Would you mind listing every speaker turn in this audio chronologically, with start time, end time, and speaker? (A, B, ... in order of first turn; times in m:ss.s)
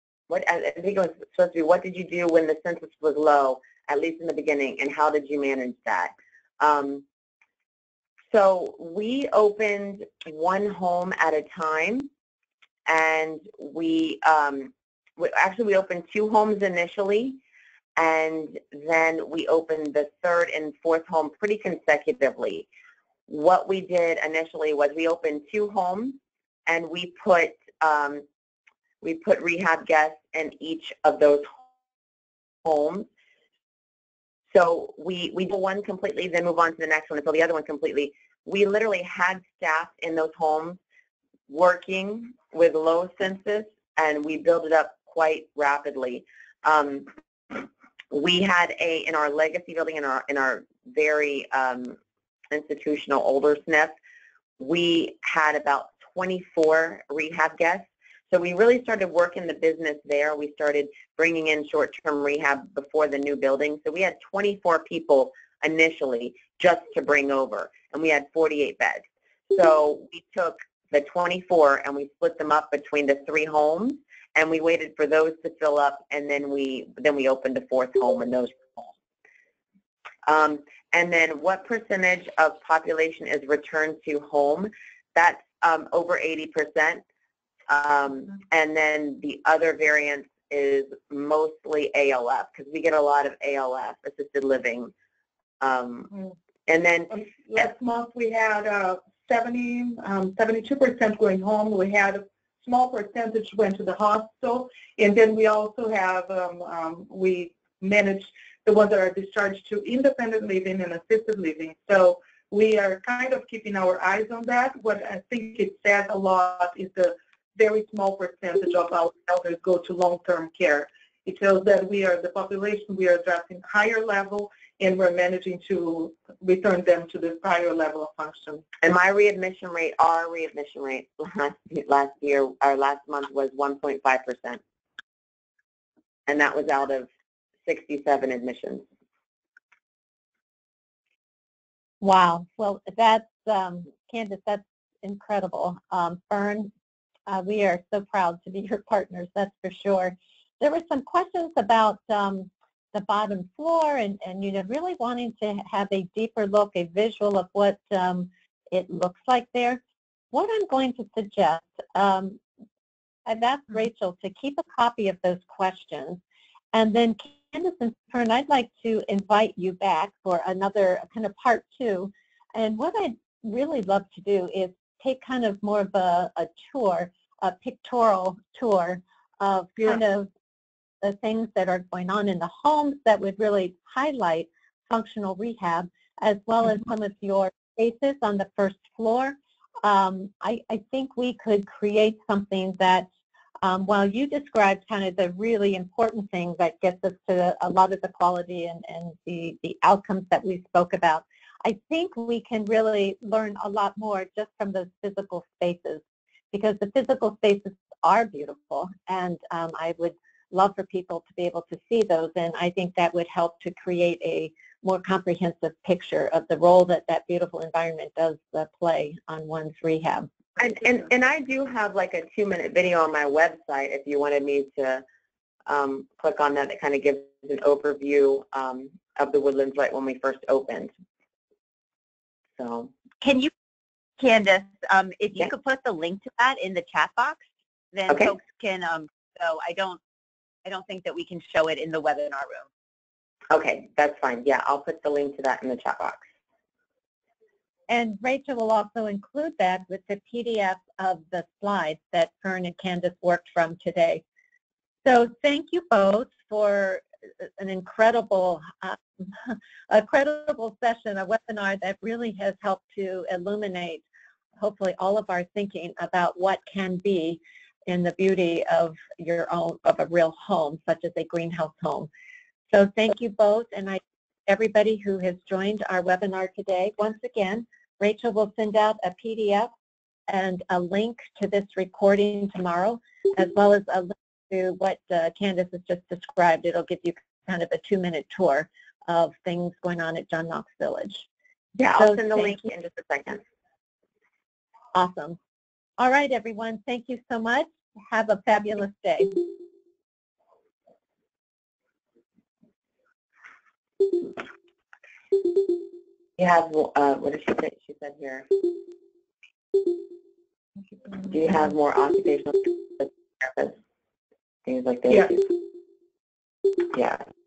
0:00.3-0:07.0 A
0:08.3-0:12.1 A
0:12.8-0:17.4 A
0:18.0-0:22.6 A
0:23.3-0:28.2 A
0:29.0-0:31.6 A
0:32.6-0:33.1 A
0:34.5-0:40.8 A
0:41.5-0:52.0 A
0:52.5-0:53.9 A
0:54.6-1:18.9 A
1:20.2-1:27.0 A
1:27.7-1:34.9 A
1:35.6-1:36.1 A
1:36.7-1:37.6 A
1:37.1-2:08.6 B
2:08.8-2:14.6 A
2:16.3-2:17.1 A
2:17.6-2:18.8 A
2:22.0-2:26.7 C
2:27.3-2:39.8 C
2:40.3-2:42.4 C
2:43.2-2:46.2 C
2:46.7-3:00.3 C
3:01.0-3:13.1 C
3:13.6-3:40.3 C
3:40.6-3:45.0 A
3:45.6-3:50.9 A
3:52.6-3:52.9 A
3:53.2-3:53.5 D
3:54.2-4:00.0 D
3:58.1-3:58.4 A
4:00.6-4:02.7 D
4:03.5-4:06.2 A
4:07.9-4:14.2 C
4:15.0-4:24.0 C
4:24.6-4:32.1 C
4:32.7-4:39.7 C
4:40.3-4:51.3 C
4:51.8-4:53.4 A
4:52.0-4:52.6 C
4:54.9-4:55.4 C
4:56.0-4:59.4 C
5:06.4-5:08.5 A
5:11.2-5:13.8 A
5:14.6-5:15.5 A
5:16.9-5:17.2 A